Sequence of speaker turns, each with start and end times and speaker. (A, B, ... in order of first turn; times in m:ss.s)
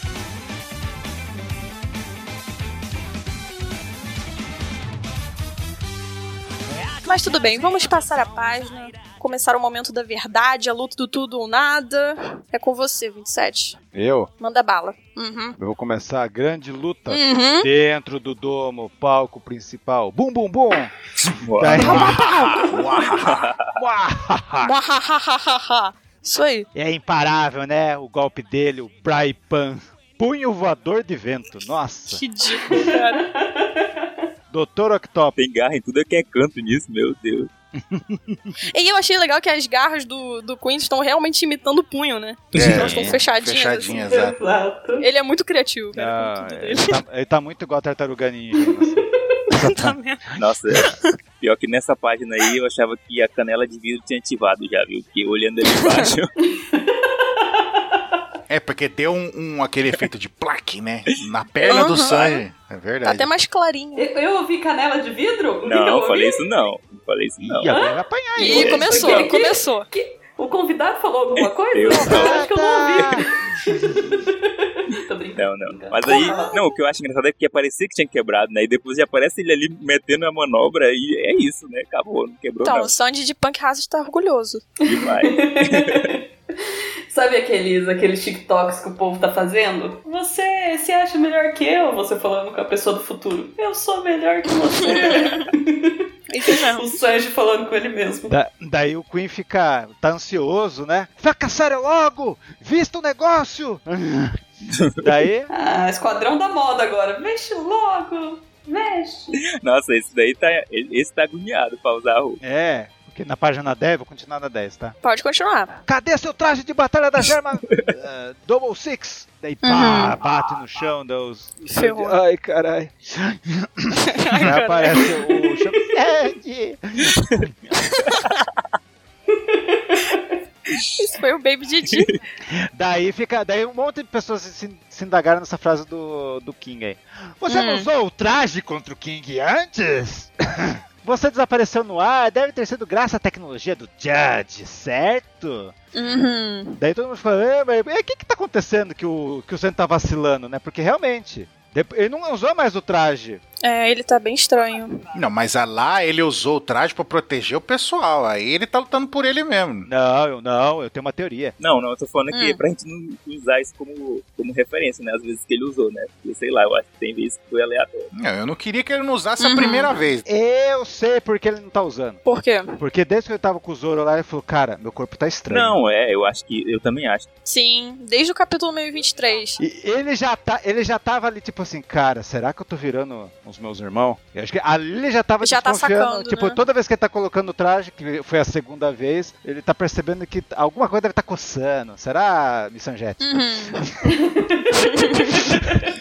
0:07.0-0:13.8 A
0:13.9-0:14.3 B
0:14.4-0:15.6 A
0:15.6-0:21.0 B
0:17.1-0:17.7 A
0:21.4-0:22.1 C
0:21.6-0:22.7 B
0:21.8-0:23.5 D
0:21.9-0:22.6 A
0:23.2-0:23.7 C
0:23.7-0:24.7 B
0:24.6-0:26.7 A
0:26.8-0:32.2 B
0:32.1-0:33.3 A
0:32.7-0:34.2 E
0:34.5-0:35.4 B
0:35.4-0:37.5 C
0:37.8-0:38.6 B
0:38.6-0:44.0 A
0:42.5-0:44.4 D
0:42.6-0:43.2 B
0:43.9-0:45.1 E
0:45.0-0:47.0 A
0:46.0-0:50.4 B
0:48.7-0:49.3 E
0:49.6-0:50.2 A
0:50.4-0:56.3 C
0:50.8-0:51.2 A
0:55.8-0:56.1 A
0:56.4-0:58.2 E
0:58.5-1:03.3 D
1:01.6-1:02.3 C
1:01.7-1:02.4 A
1:03.0-1:04.1 A
1:04.0-1:06.4 E
1:05.6-1:07.8 C
1:07.4-1:09.2 B
1:07.7-1:16.7 E
1:08.4-1:09.9 A
1:11.4-1:12.4 C
1:11.9-1:13.3 B
1:13.0-1:13.2 C
1:15.4-1:22.9 C
1:16.1-1:16.5 A
1:22.6-1:24.6 A
1:24.8-1:38.3 E
1:24.9-1:26.1 C
1:34.8-1:35.5 A
1:36.3-1:36.9 A
1:38.3-1:44.4 B
1:44.7-1:45.1 C
1:45.0-1:45.5 B
1:45.5-1:49.4 E
1:49.4-1:52.4 C
1:52.4-1:55.0 B
1:55.0-1:55.8 A
1:55.9-2:07.6 B
1:59.6-2:00.2 A
2:01.7-2:02.2 A
2:04.1-2:05.1 A
2:08.1-2:08.4 A
2:09.3-2:10.4 E
2:11.0-2:12.1 A
2:12.5-2:25.8 B
2:17.5-2:17.9 A
2:25.9-2:26.8 A
2:26.8-2:33.4 B
2:33.6-2:35.0 A
2:35.2-2:39.9 D
2:39.9-2:41.6 B
2:41.6-2:48.1 C
2:42.3-2:42.6 A
2:48.1-2:50.3 D
2:49.4-2:49.9 A
2:50.3-2:52.2 B
2:52.2-2:52.7 A
2:52.8-2:55.8 B
2:55.5-2:57.3 C
2:57.5-2:59.6 A
2:59.6-3:14.1 B
3:05.4-3:06.6 A
3:13.2-3:13.8 A
3:14.0-3:15.8 E
3:14.8-3:15.5 A